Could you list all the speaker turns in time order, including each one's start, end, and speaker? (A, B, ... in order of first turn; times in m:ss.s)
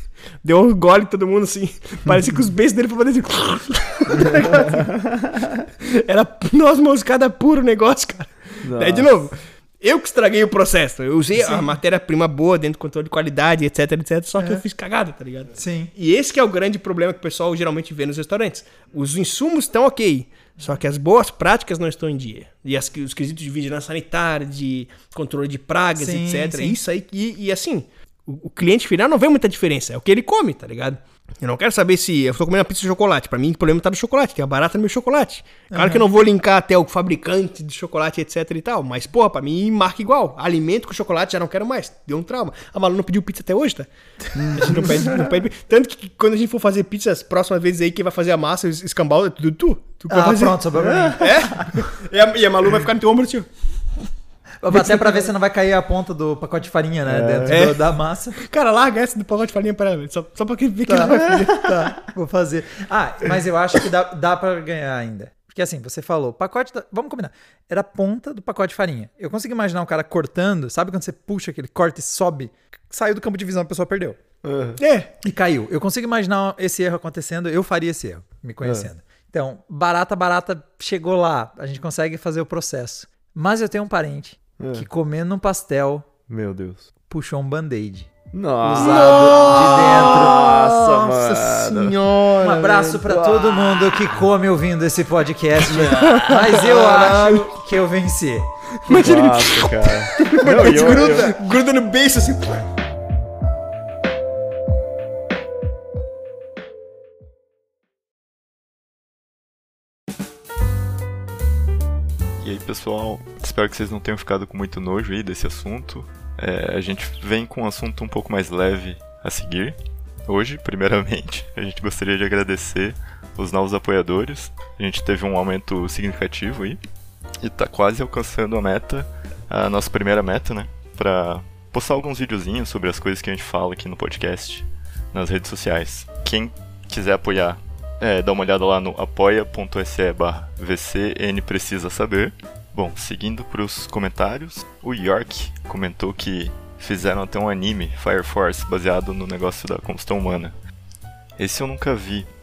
0:00.4-0:05.0 A
0:04.1-0:05.6 B
0:05.8-0:43.9 A
0:08.6-0:09.2 B
0:11.4-0:11.8 C
0:14.4-0:14.6 C
0:15.6-0:15.9 C
0:26.0-0:26.8 C
0:35.7-0:36.0 C
0:44.3-0:45.3 B
0:44.6-0:50.6 A
0:44.6-0:44.9 C
0:50.1-0:51.3 C
0:50.8-0:51.7 B
0:51.2-0:53.5 A
0:54.6-0:58.4 C
0:54.7-0:55.3 A
0:57.0-0:57.7 B
0:57.5-0:57.8 A
0:58.3-1:01.7 A
1:00.9-1:14.2 C
1:14.4-1:14.8 B
1:14.8-1:15.1 A
1:15.2-1:26.1 C
1:18.6-1:18.9 B
1:24.6-1:24.9 B
1:26.3-1:26.9 B
1:27.1-1:28.1 C
1:28.3-1:34.2 B
1:28.6-1:30.4 C
1:28.8-1:32.4 A
1:32.4-1:38.5 C
1:35.7-1:36.4 B
1:35.7-1:37.5 A
1:38.8-1:42.6 A
1:38.9-1:41.4 B
1:40.6-1:41.1 C
1:52.4-1:59.7 B
2:00.3-2:06.8 B
2:07.4-2:30.5 B
2:31.4-2:32.2 B